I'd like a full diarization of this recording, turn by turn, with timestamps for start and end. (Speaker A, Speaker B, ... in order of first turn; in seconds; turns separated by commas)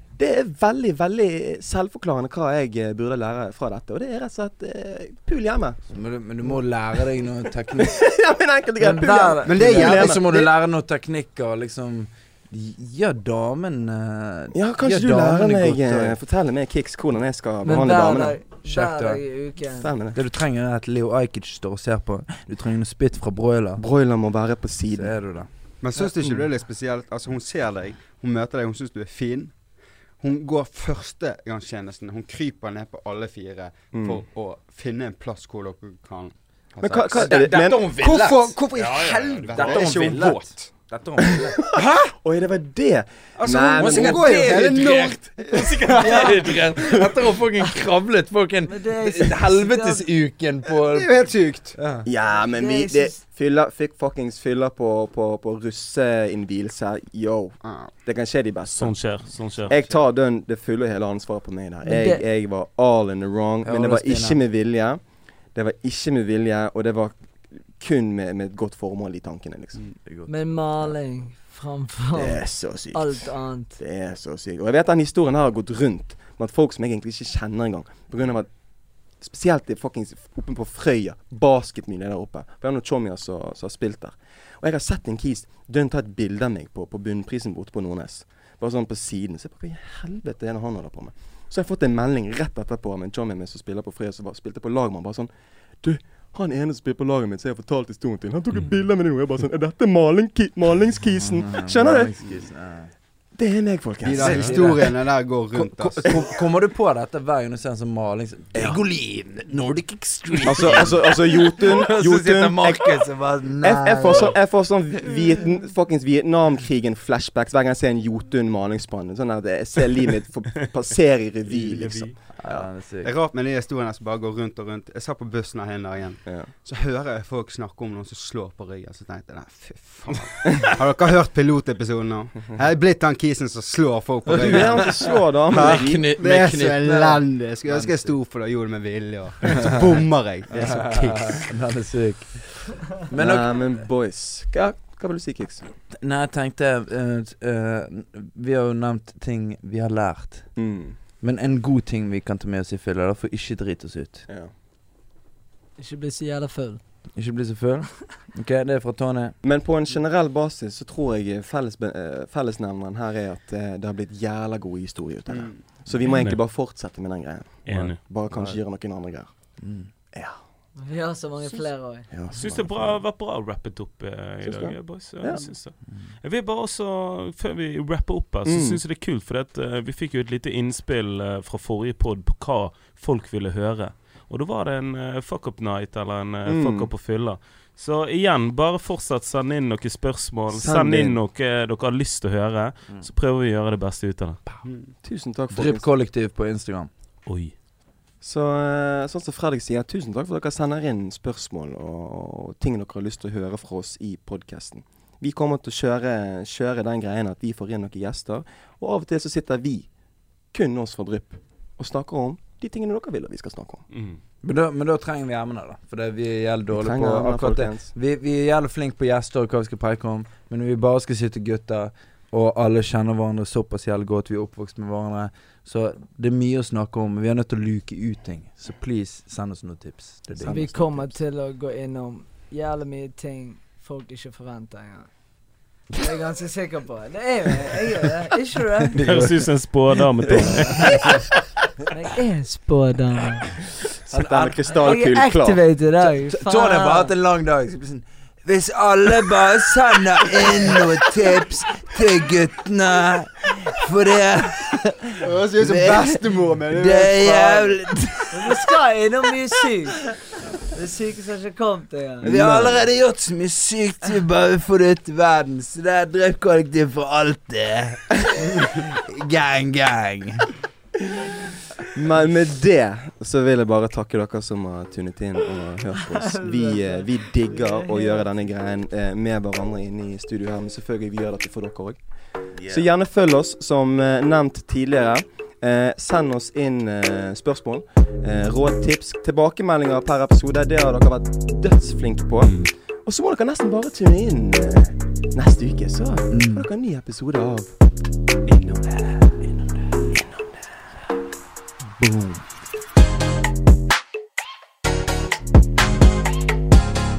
Speaker A: 0.2-5.8, Speaker B: 5.9-8.0, Speaker A: 7.8-10.5, Speaker C: 8.8-10.1, Speaker D: 9.4-10.1, Speaker B: 9.6-16.2, Speaker A: 14.6-18.4, Speaker C: 17.6-19.9, Speaker B: 18.6-19.2, Speaker A: 19.7-20.2, Speaker B: 20.1-23.8, Speaker A: 23.8-25.4, Speaker B: 24.9-25.5, Speaker D: 25.8-40.8, Speaker A: 33.9-34.2, Speaker A: 36.8-37.9, Speaker B: 37.1-38.6, Speaker E: 38.7-40.0, Speaker B: 39.5-42.0, Speaker A: 41.8-44.6, Speaker D: 43.4-46.4, Speaker B: 43.7-52.1, Speaker C: 48.6-50.1, Speaker D: 50.9-51.8, Speaker A: 52.0-69.8, Speaker C: 52.3-53.2, Speaker D: 57.6-58.0, Speaker E: 58.7-59.8, Speaker C: 61.8-62.2, Speaker B: 63.6-64.4, Speaker B: 70.0-70.3, Speaker C: 70.3-73.8, Speaker A: 72.1-78.5, Speaker A: 79.2-102.3, Speaker B: 101.2-102.9, Speaker A: 103.3-104.7, Speaker D: 104.0-106.1, Speaker B: 104.2-104.9, Speaker B: 105.5-114.4, Speaker A: 108.5-108.8, Speaker A: 110.4-113.0, Speaker A: 113.6-122.7, Speaker E: 121.5-122.2, Speaker B: 122.4-123.1, Speaker D: 123.0-141.5, Speaker A: 126.2-126.5, Speaker B: 134.3-138.2, Speaker A: 134.4-136.1, Speaker B: 139.4-140.0, Speaker B: 140.5-143.8, Speaker A: 143.1-145.7, Speaker B: 145.9-150.6, Speaker A: 150.6-151.0, Speaker B: 151.2-154.3, Speaker C: 155.8-156.8, Speaker B: 157.2-159.3, Speaker A: 159.4-170.4, Speaker D: 165.3-165.7, Speaker E: 166.1-166.4, Speaker E: 167.7-168.0, Speaker B: 168.3-168.6, Speaker B: 169.6-169.9, Speaker C: 170.8-172.1, Speaker A: 172.1-173.0, Speaker E: 172.3-194.4, Speaker A: 174.4-175.5, Speaker A: 178.5-178.8, Speaker A: 186.5-186.9, Speaker A: 190.5-191.2, Speaker D: 194.6-194.9, Speaker A: 195.0-195.9, Speaker B: 195.5-196.9, Speaker E: 197.3-197.6, Speaker A: 198.2-209.9, Speaker A: 210.5-213.9, Speaker E: 213.9-214.2, Speaker B: 214.4-230.9, Speaker A: 216.7-217.9, Speaker A: 230.4-231.1, Speaker C: 230.4-239.0, Speaker B: 238.9-239.7, Speaker E: 239.0-241.1, Speaker B: 240.3-241.2, Speaker C: 241.9-243.5, Speaker A: 244.0-245.6, Speaker B: 244.1-245.0, Speaker C: 244.8-247.1, Speaker B: 246.0-258.4, Speaker D: 255.2-257.8, Speaker C: 258.3-260.1, Speaker C: 260.7-262.3, Speaker B: 262.2-270.5, Speaker A: 262.2-262.9, Speaker A: 271.9-282.0, Speaker C: 276.1-278.3, Speaker A: 282.6-297.7, Speaker E: 292.4-292.7, Speaker B: 296.3-296.7, Speaker B: 298.9-299.3, Speaker A: 300.1-300.6, Speaker B: 302.0-302.5